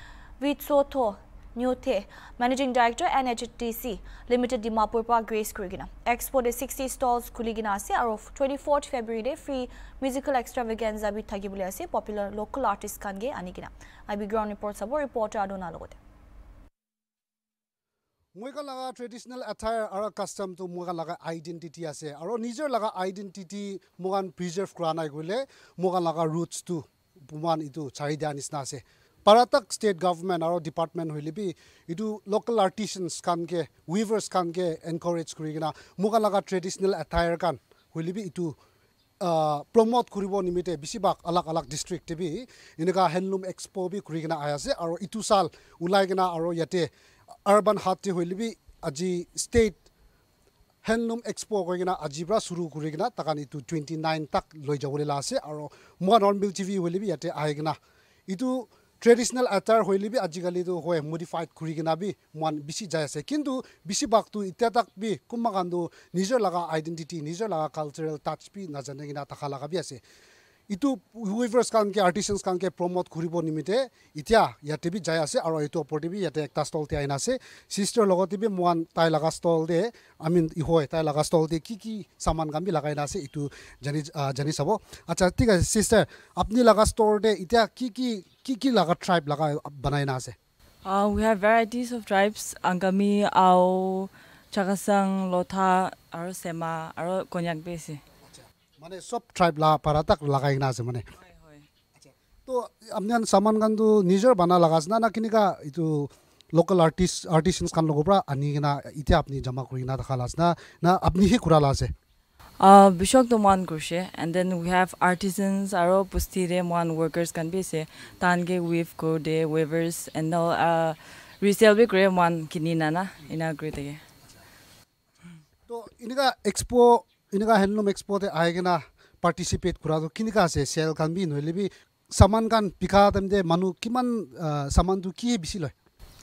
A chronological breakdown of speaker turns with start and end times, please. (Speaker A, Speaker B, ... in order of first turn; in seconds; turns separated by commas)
Speaker A: 0.4-16.0, Speaker B: 18.4-38.5, Speaker B: 39.2-46.9, Speaker B: 47.5-49.8, Speaker B: 50.8-57.8, Speaker B: 58.3-70.0, Speaker B: 70.7-90.3, Speaker C: 90.8-98.0, Speaker B: 98.3-101.0, Speaker C: 101.2-101.7, Speaker B: 102.0-111.9, Speaker C: 112.6-124.0, Speaker B: 125.7-135.7